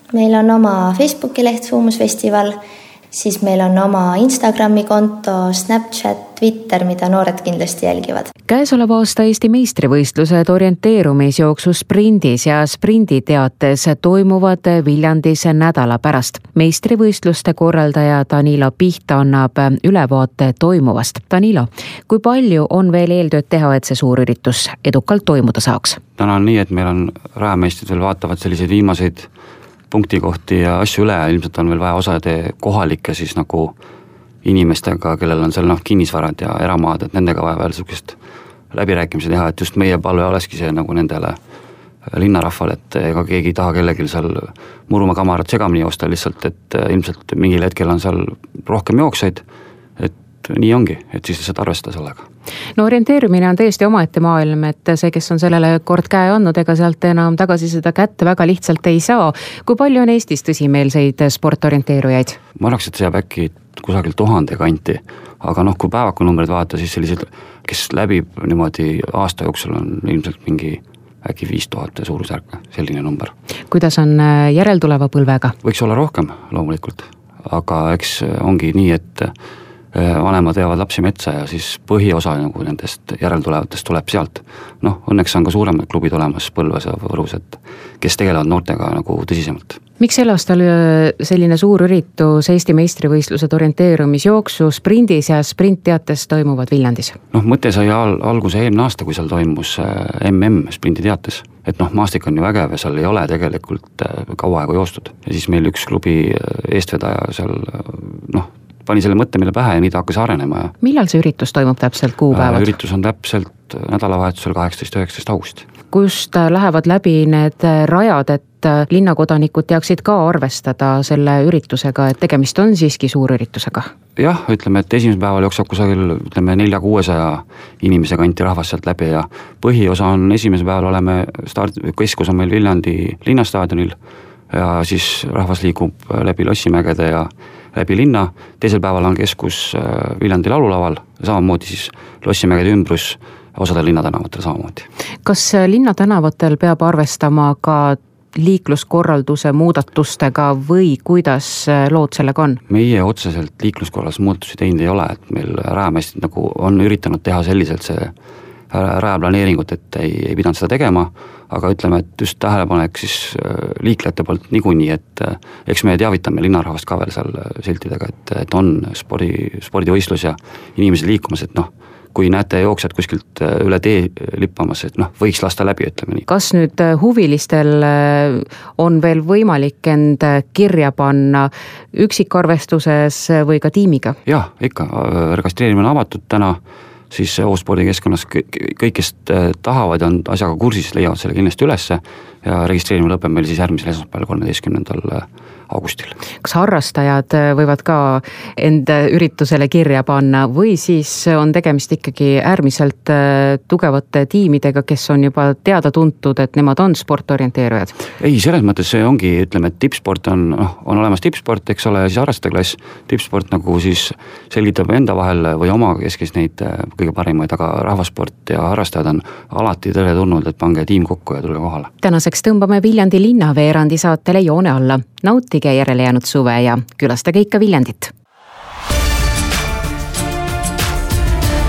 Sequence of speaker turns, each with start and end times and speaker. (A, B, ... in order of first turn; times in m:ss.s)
0:00.1-0:02.5 A
0:03.1-0:08.3 A
0:08.5-0:26.0 B
0:26.2-0:29.3 C
0:29.9-0:33.7 C
0:34.4-0:38.2 C
0:38.7-0:41.4 C
0:42.1-0:49.4 C
0:50.0-0:52.2 C
0:52.8-1:02.4 B
1:02.6-1:13.3 C
1:13.7-1:15.5 B
1:15.6-1:19.3 C
1:19.9-1:29.8 C
1:30.0-1:37.2 B
1:37.3-1:50.7 C
1:50.8-1:52.7 B
1:52.3-1:55.7 C
1:55.9-2:03.9 B
2:04.2-2:14.0 C
2:14.5-2:24.9 C
2:25.2-2:32.6 B
2:32.7-2:38.1 C
2:38.7-2:56.2 C
2:56.3-3:04.2 B
3:04.2-3:06.6 C
3:07.1-3:16.2 C
3:16.4-3:28.0 B
3:28.2-3:41.9 C
3:42.0-3:48.1 B